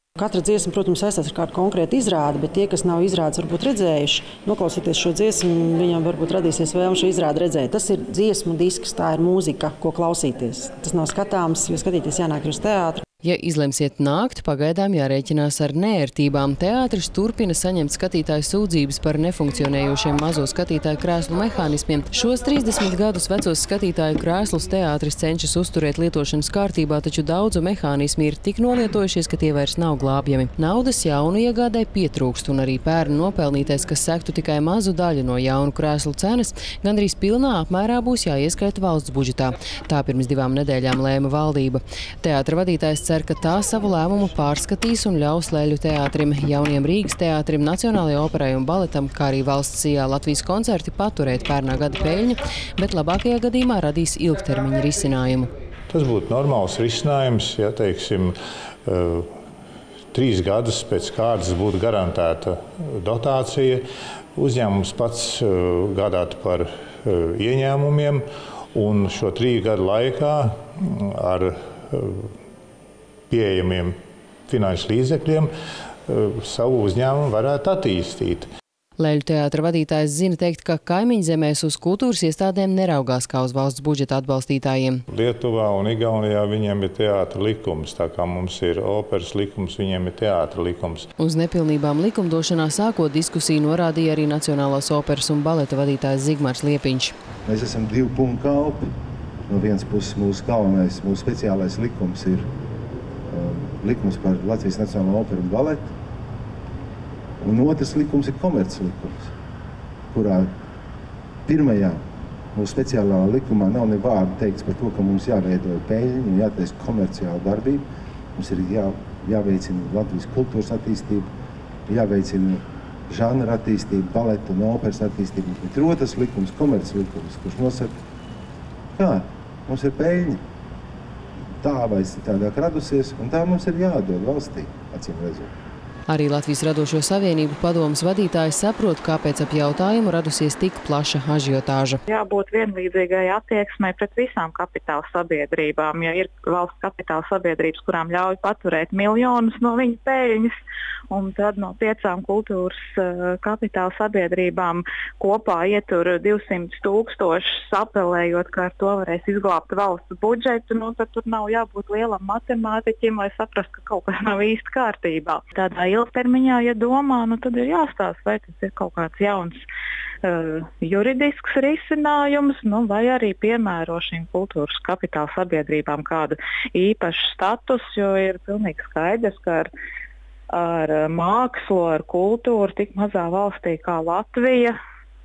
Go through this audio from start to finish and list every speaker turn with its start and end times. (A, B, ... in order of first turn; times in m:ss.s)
0:00.2-0:13.0 A
0:13.2-0:55.5 B
0:55.9-0:58.3 C
0:58.8-0:59.2 C
1:00.1-1:03.8 C
1:04.4-1:08.2 C
1:08.7-1:12.3 C
1:13.3-1:13.9 C
1:14.5-1:15.5 C
1:16.1-1:18.5 C
1:19.0-1:25.0 B
1:25.1-1:31.1 C
1:31.2-1:37.1 B
1:37.5-1:38.8 D
1:39.5-1:42.5 D
1:43.3-1:45.9 D
1:47.4-1:49.3 D
1:50.1-1:50.5 D
1:51.4-1:52.0 D
1:52.5-1:57.8 D
1:58.3-2:01.3 D
2:01.9-2:07.9 D
2:09.0-2:10.4 D
2:11.6-2:15.5 D
2:16.1-2:22.0 B
2:22.1-2:30.5 E
2:31.1-2:49.6 E
2:50.2-2:59.7 E
3:00.5-3:04.7 E